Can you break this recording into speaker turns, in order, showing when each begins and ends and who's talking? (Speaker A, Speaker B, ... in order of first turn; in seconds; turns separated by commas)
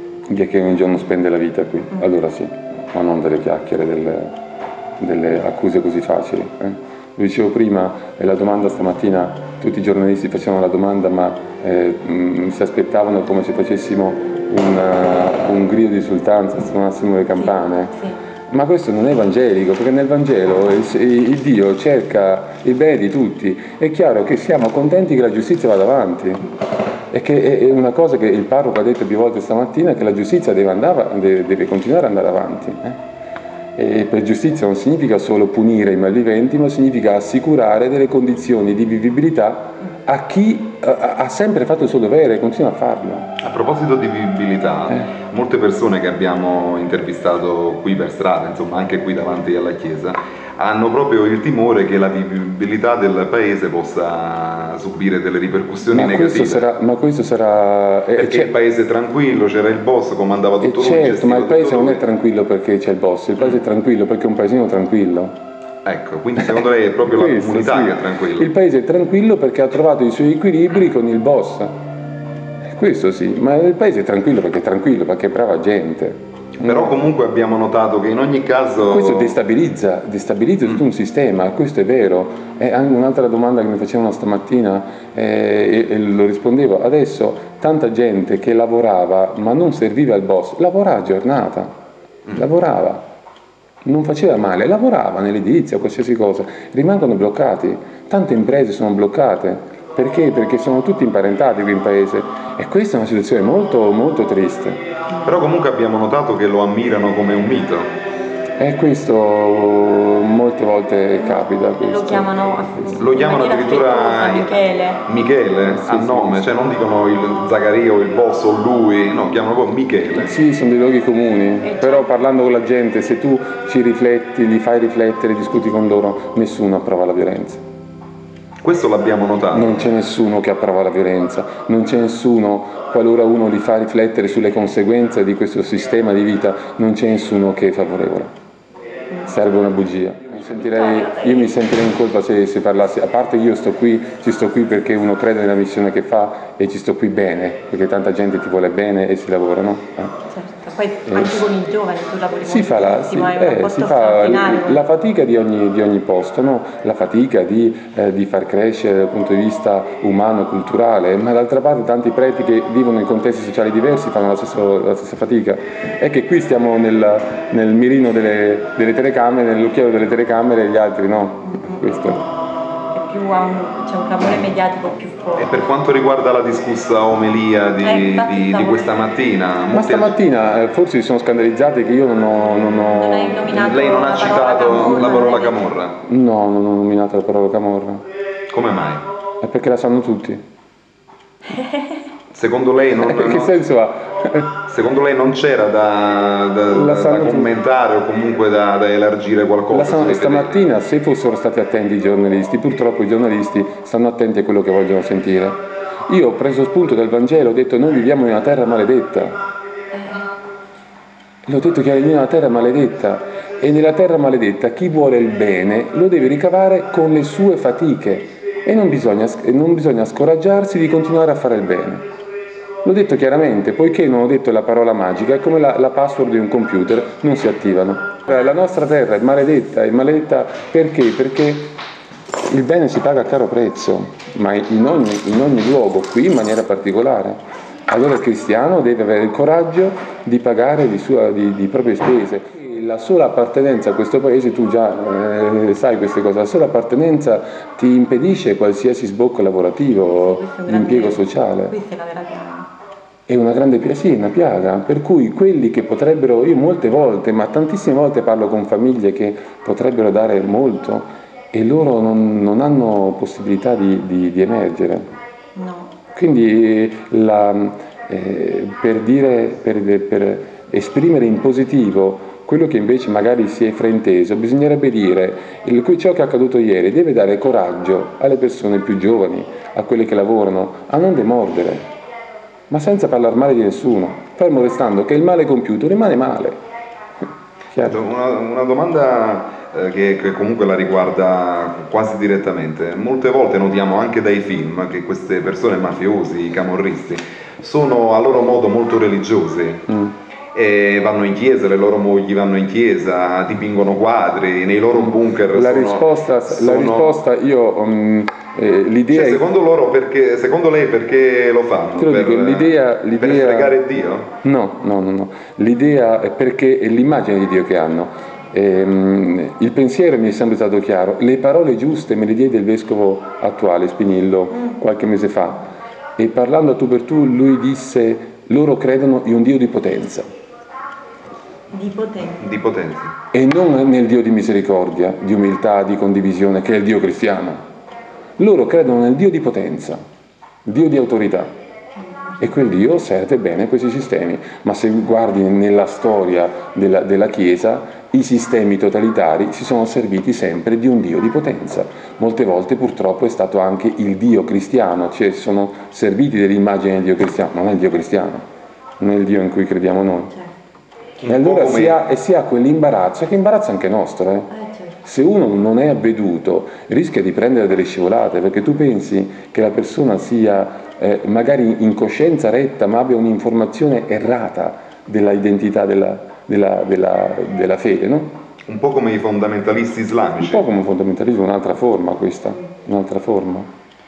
Speaker A: 0.3-4.4, Speaker A: 5.0-26.4, Speaker B: 17.3-18.2, Speaker A: 27.1-33.0, Speaker A: 33.8-43.3, Speaker C: 43.4-56.7, Speaker A: 55.9-58.5, Speaker C: 58.1-62.0, Speaker A: 60.6-65.4, Speaker C: 65.8-68.5, Speaker A: 66.5-71.8, Speaker A: 72.6-77.0, Speaker C: 76.6-79.3, Speaker A: 78.8-91.7, Speaker A: 92.3-93.0, Speaker A: 93.8-104.8, Speaker B: 105.1-105.5, Speaker C: 105.2-107.9, Speaker A: 108.5-113.0, Speaker B: 111.1-115.1, Speaker C: 113.0-120.3, Speaker A: 115.6-116.5, Speaker A: 120.1-127.6, Speaker B: 121.6-122.1, Speaker C: 128.6-129.9, Speaker A: 129.5-138.3, Speaker B: 139.1-139.3, Speaker A: 139.2-150.1, Speaker B: 140.7-141.6, Speaker B: 150.3-154.8, Speaker A: 151.1-151.4, Speaker A: 152.4-172.2, Speaker B: 171.4-172.2, Speaker B: 172.9-175.6, Speaker C: 175.4-180.1, Speaker B: 177.8-179.0, Speaker A: 179.7-183.7, Speaker B: 182.3-185.7, Speaker C: 183.5-185.9, Speaker A: 186.0-188.0, Speaker C: 188.5-189.1, Speaker A: 189.4-190.4, Speaker B: 191.4-192.1, Speaker C: 192.3-193.5, Speaker A: 193.0-194.6, Speaker C: 194.7-200.7, Speaker A: 196.7-197.5, Speaker A: 199.7-209.4, Speaker B: 209.9-210.3, Speaker A: 211.4-222.0, Speaker A: 222.8-231.8, Speaker A: 232.5-251.7, Speaker B: 250.1-252.7, Speaker A: 253.3-265.1, Speaker B: 265.6-265.9, Speaker A: 266.1-281.9, Speaker A: 282.7-286.6, Speaker A: 287.7-288.0, Speaker C: 287.8-299.9, Speaker A: 299.9-300.1, Speaker C: 300.5-307.2, Speaker A: 304.9-309.5, Speaker C: 309.1-314.3, Speaker A: 312.0-313.8, Speaker A: 314.4-330.3, Speaker B: 324.5-324.8, Speaker B: 331.7-332.4, Speaker C: 332.4-333.1, Speaker A: 333.3-337.6, Speaker A: 338.4-340.0, Speaker A: 340.6-341.5, Speaker B: 341.9-342.5, Speaker A: 342.4-358.4, Speaker A: 359.0-360.3, Speaker B: 360.3-360.6, Speaker C: 361.2-362.0, Speaker A: 361.2-364.5, Speaker B: 364.5-365.0, Speaker A: 365.0-378.4, Speaker C: 378.6-380.6, Speaker A: 380.4-383.7